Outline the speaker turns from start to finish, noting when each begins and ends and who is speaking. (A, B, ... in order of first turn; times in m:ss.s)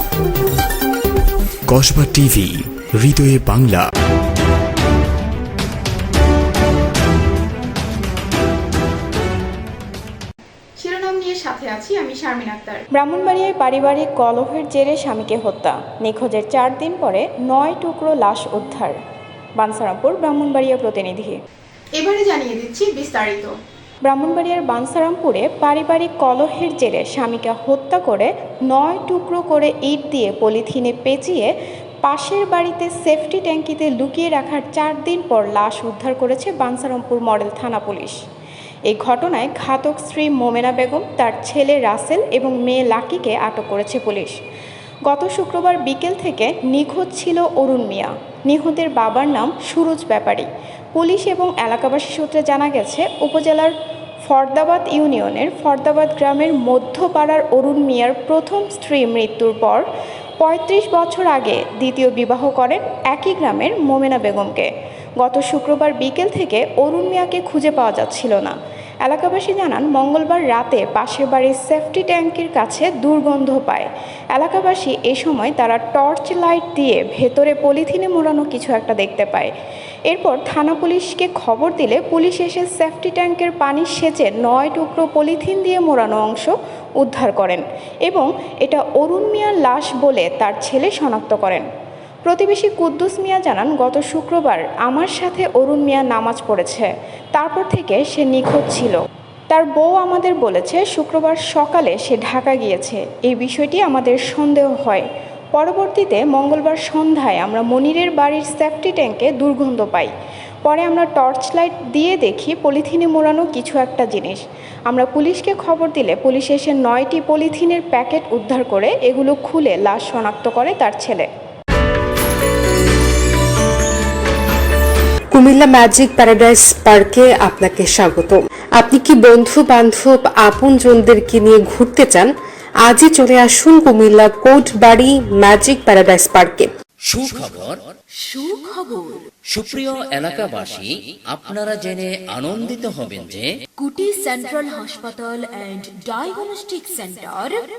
0:01.7-0:03.8 A
0:10.8-0:12.8 B
0:13.0-0:19.0 C
0:19.6-0:21.4 C
0:22.0-0:23.5 B
0:24.1-0:31.5 C
0:32.0-0:38.2 C
0:38.9-0:44.3 C
0:45.1-0:53.7 C
0:54.2-0:59.8 C
1:00.4-1:04.7 C
1:05.2-1:19.5 C
1:20.1-1:31.6 C
1:32.2-1:39.0 C
1:39.5-1:50.1 C
1:50.6-2:01.2 C
2:05.3-2:12.3 D
2:12.8-2:16.7 D
2:17.1-2:17.8 E
2:18.2-2:19.2 F
2:19.5-2:23.5 E
2:23.8-2:27.6 F